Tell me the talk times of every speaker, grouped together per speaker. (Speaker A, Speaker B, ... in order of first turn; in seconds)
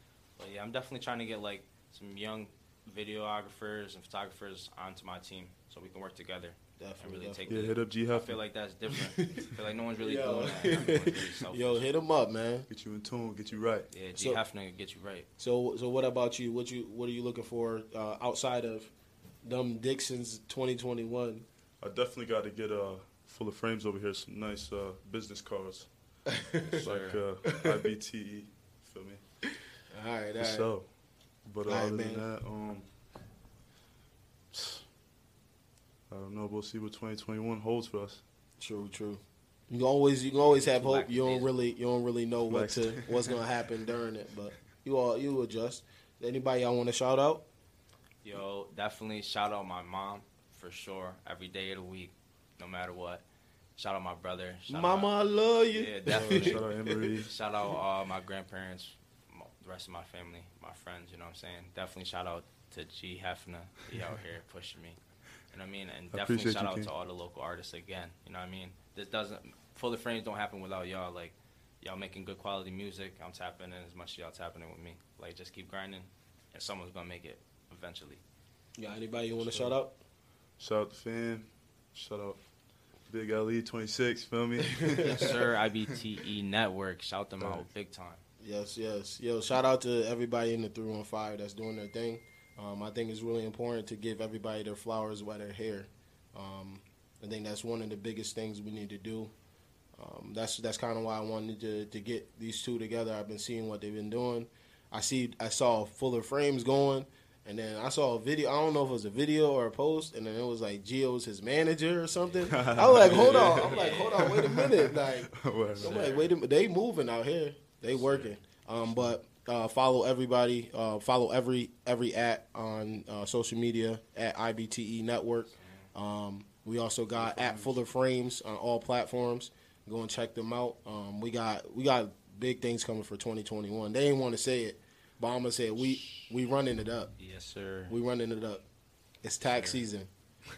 Speaker A: 0.4-11.9, 13.9-15.3, 26.6-27.2, 40.4-41.5, 48.2-53.2, 53.8-55.1, 55.7-56.6, 57.2-65.0, 65.5-78.2, 85.0-88.2, 113.0-114.4, 115.8-116.3, 125.6-125.9, 136.0-136.3, 137.2-137.9, 139.5-139.8
Speaker B: 6.8-7.5, 8.9-12.7, 15.4-18.9, 19.4-21.5, 26.3-26.9, 27.4-27.9, 29.9-30.7, 31.7-32.2, 38.6-47.5, 54.7-57.0, 78.8-80.0, 84.7-85.3, 88.4-99.3, 100.0-137.1, 137.9-138.7, 139.2-140.1
Speaker C: 7.5-8.4, 12.7-13.9, 21.8-25.9, 26.8-29.2, 30.4-30.9, 31.5-32.9, 34.5-34.9, 36.1-38.2, 42.5-43.4, 56.1-57.3, 66.1-66.9, 80.6-82.4, 83.1-85.5, 87.4-87.7, 112.5-116.0, 127.1-127.7